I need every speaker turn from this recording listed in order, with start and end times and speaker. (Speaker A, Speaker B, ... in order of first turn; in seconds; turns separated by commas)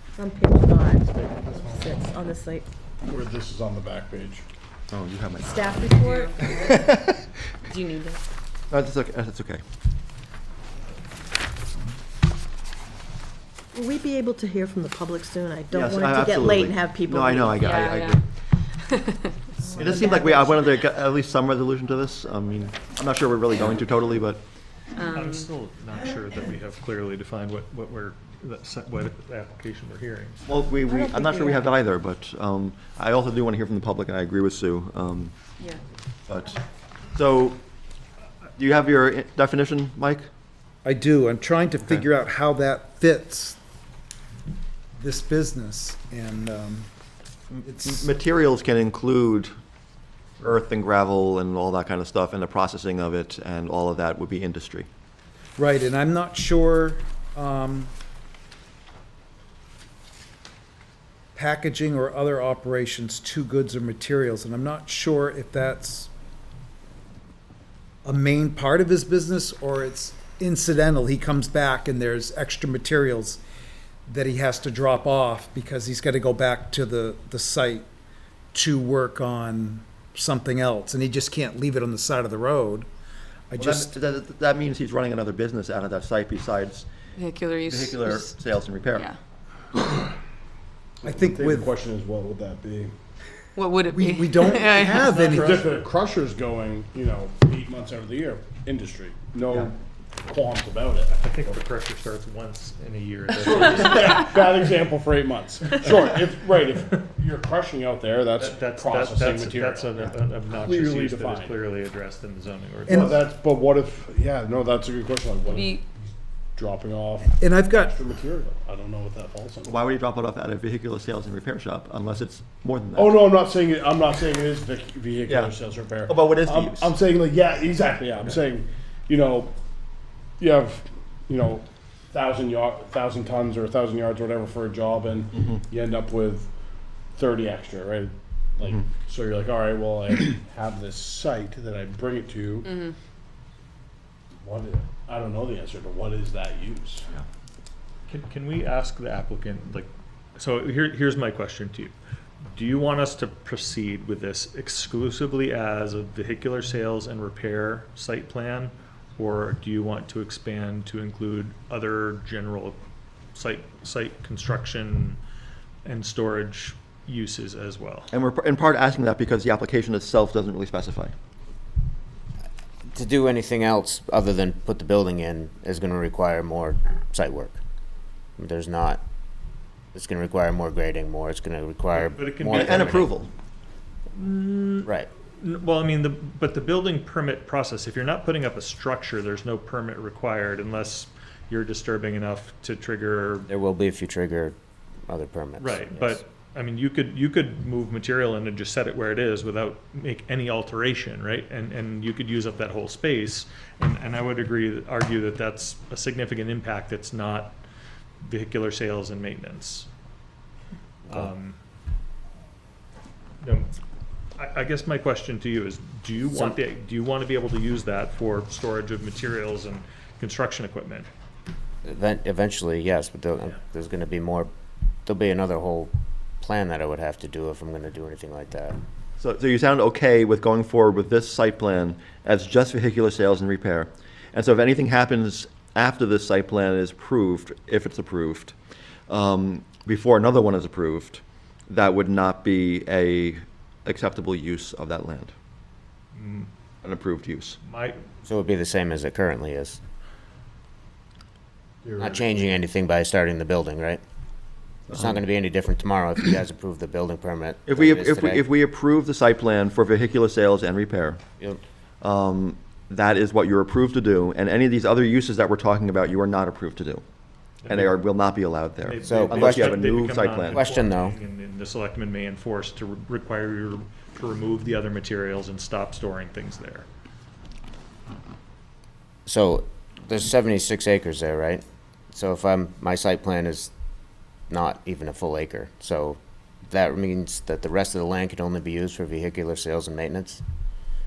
Speaker A: 0.2-2.7, Speaker B: 1.4-1.7, Speaker B: 3.0-4.5, Speaker C: 4.9-7.0, Speaker A: 5.4-6.7, Speaker D: 6.0-6.8, Speaker D: 7.7-8.2, Speaker C: 8.7-9.6, Speaker A: 13.7-17.6, Speaker C: 15.7-18.2, Speaker D: 17.6-18.2, Speaker A: 19.6-20.6, Speaker C: 19.7-24.4, Speaker D: 25.0-25.5, Speaker E: 25.1-30.4, Speaker C: 30.4-35.4, Speaker A: 30.8-31.6, Speaker C: 36.3-36.6, Speaker C: 37.1-37.6, Speaker C: 38.6-40.3, Speaker F: 40.8-43.6, Speaker F: 45.0-46.9, Speaker C: 47.5-49.5, Speaker F: 47.6-48.1, Speaker C: 50.4-54.9, Speaker F: 55.6-57.9, Speaker F: 61.4-66.1, Speaker F: 68.0-73.4, Speaker F: 74.1-77.8, Speaker F: 78.5-82.9, Speaker F: 83.5-84.0, Speaker C: 83.6-86.9, Speaker D: 87.2-88.3, Speaker C: 87.4-89.1, Speaker D: 88.9-89.2, Speaker B: 91.0-92.9, Speaker F: 91.0-91.7, Speaker D: 93.5-95.2, Speaker F: 93.9-95.6, Speaker E: 94.9-95.8, Speaker B: 95.3-101.6, Speaker E: 101.2-104.3, Speaker B: 103.3-111.6, Speaker E: 108.3-113.1, Speaker F: 112.9-113.2, Speaker B: 112.9-116.0, Speaker D: 115.5-115.8, Speaker B: 116.5-119.8, Speaker F: 117.2-117.9, Speaker C: 119.6-123.2, Speaker B: 122.9-129.5, Speaker C: 125.2-125.5, Speaker C: 126.1-126.9, Speaker B: 130.4-136.5, Speaker B: 137.1-142.9, Speaker B: 144.4-147.1, Speaker E: 148.1-151.9, Speaker E: 152.5-162.8, Speaker E: 163.3-165.2, Speaker E: 165.8-168.1, Speaker C: 168.1-171.1, Speaker G: 172.9-177.6, Speaker G: 178.4-179.0, Speaker G: 179.9-183.2, Speaker E: 181.9-183.0, Speaker C: 182.5-183.3, Speaker E: 184.1-193.5, Speaker G: 193.5-194.6, Speaker G: 195.1-196.2, Speaker E: 195.6-207.6, Speaker E: 208.2-209.9, Speaker E: 211.1-211.6, Speaker E: 213.4-213.7, Speaker E: 214.3-221.1, Speaker G: 221.8-224.5, Speaker G: 225.1-228.8, Speaker C: 229.2-238.5, Speaker C: 239.1-245.3, Speaker E: 246.1-246.5, Speaker C: 246.8-247.6, Speaker E: 247.6-248.0, Speaker G: 248.2-249.8, Speaker B: 251.8-252.2, Speaker G: 252.0-254.0, Speaker G: 254.9-258.5, Speaker C: 257.7-261.2, Speaker C: 262.0-267.0, Speaker E: 267.6-268.0, Speaker C: 267.7-270.6, Speaker E: 268.8-276.9, Speaker G: 269.0-269.8, Speaker G: 270.5-271.1, Speaker G: 279.2-283.7, Speaker G: 284.5-286.2, Speaker G: 286.7-290.4